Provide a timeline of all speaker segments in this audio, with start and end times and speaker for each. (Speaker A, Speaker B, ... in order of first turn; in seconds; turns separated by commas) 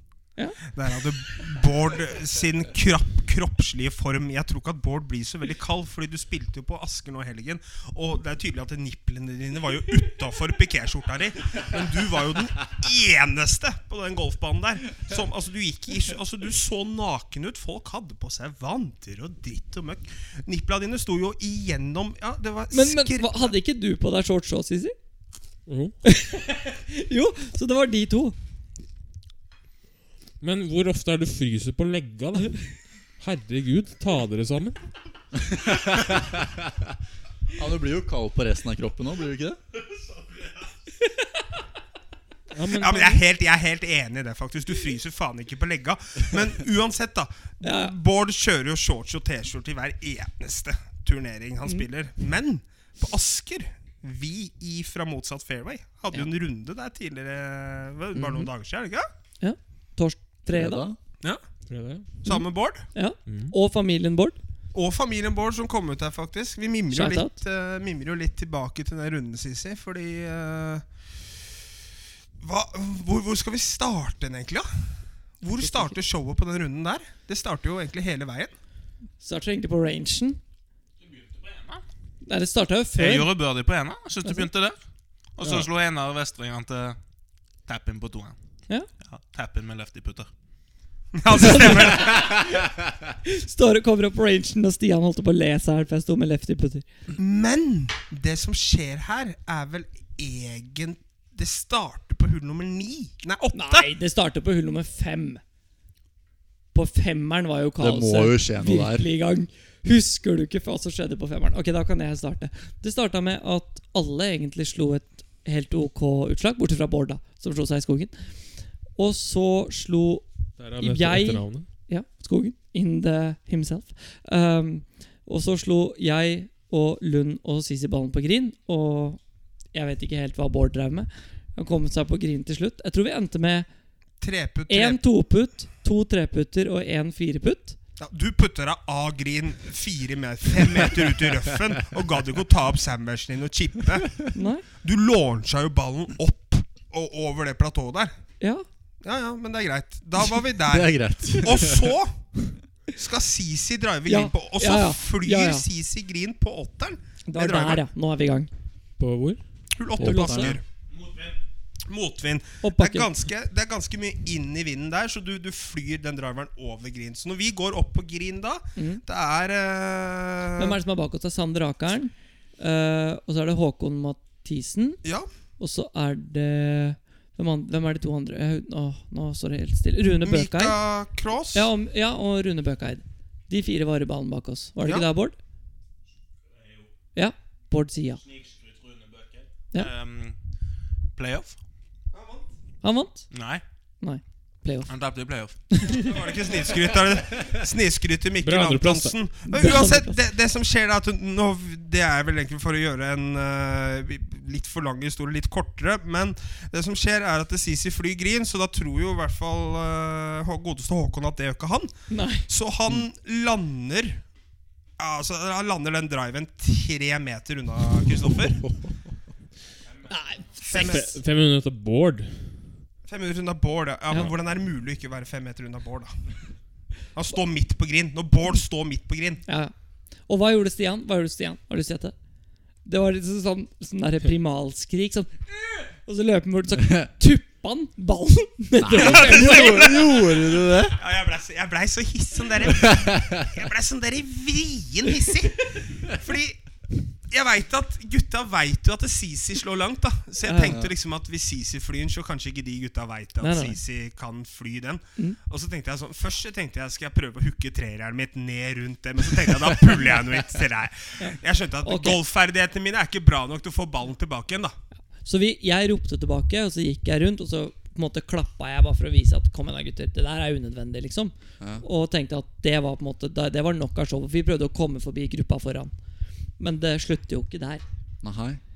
Speaker A: 0.7-23.5, Speaker B: 22.7-24.9, Speaker C: 25.7-25.9, Speaker B: 26.0-28.4, Speaker C: 30.4-34.9, Speaker D: 35.4-36.9, Speaker D: 37.5-39.6, Speaker B: 41.0-41.3, Speaker C: 42.5-43.2, Speaker A: 42.7-59.1, Speaker B: 47.6-48.0, Speaker B: 58.2-58.5, Speaker B: 59.4-60.9, Speaker D: 60.5-61.0, Speaker C: 61.7-62.2, Speaker A: 62.2-62.9, Speaker B: 62.3-64.4, Speaker C: 63.3-63.5, Speaker A: 64.7-70.9, Speaker B: 66.9-67.3, Speaker A: 72.4-78.5, Speaker B: 75.5-76.0, Speaker B: 79.2-80.4, Speaker E: 81.0-81.8, Speaker B: 82.2-83.3, Speaker E: 83.0-84.8, Speaker E: 85.3-87.0, Speaker E: 87.7-88.4, Speaker E: 89.0-90.3, Speaker A: 91.2-92.4, Speaker B: 91.4-92.7, Speaker B: 93.2-96.8, Speaker A: 97.2-103.9, Speaker B: 103.5-105.4, Speaker B: 106.7-118.1, Speaker D: 107.8-109.1, Speaker B: 119.0-120.2, Speaker C: 120.6-121.7, Speaker B: 120.8-129.2, Speaker B: 129.7-133.7, Speaker A: 134.2-135.0, Speaker B: 134.7-137.8, Speaker A: 138.0-148.2, Speaker B: 144.3-144.7, Speaker B: 148.4-148.7, Speaker A: 149.0-152.2, Speaker D: 150.7-152.0, Speaker A: 152.9-157.8, Speaker B: 154.1-155.7, Speaker B: 157.3-158.5, Speaker C: 159.0-159.4, Speaker A: 159.8-160.6, Speaker D: 160.0-160.6, Speaker B: 160.0-160.6, Speaker E: 161.0-161.3, Speaker A: 161.9-170.8, Speaker B: 162.6-163.1, Speaker B: 168.8-169.0, Speaker B: 170.6-175.0, Speaker B: 175.6-180.8, Speaker A: 180.2-181.7, Speaker B: 181.5-185.3, Speaker B: 187.2-188.2, Speaker E: 188.3-190.4, Speaker E: 191.2-191.6, Speaker A: 192.1-192.5, Speaker B: 192.8-193.3, Speaker E: 193.3-193.6, Speaker B: 194.0-194.9, Speaker E: 194.9-195.8, Speaker B: 195.7-196.0, Speaker A: 195.9-211.9, Speaker C: 198.4-199.2, Speaker B: 199.5-200.2, Speaker B: 212.1-212.5, Speaker A: 212.5-214.2, Speaker A: 215.0-218.6, Speaker D: 218.6-218.9, Speaker B: 220.1-221.1, Speaker A: 220.7-221.2, Speaker C: 220.7-222.5, Speaker A: 223.1-226.2, Speaker A: 227.1-229.4, Speaker B: 229.5-229.7, Speaker B: 230.3-232.1, Speaker B: 232.8-240.0, Speaker D: 238.8-241.0, Speaker A: 239.0-246.6, Speaker D: 242.7-243.5, Speaker A: 247.3-264.8, Speaker B: 250.4-250.8, Speaker D: 250.6-250.9, Speaker B: 253.4-253.8, Speaker B: 261.2-262.2, Speaker B: 265.2-275.9, Speaker D: 271.6-271.9, Speaker B: 276.6-277.8, Speaker D: 278.2-278.6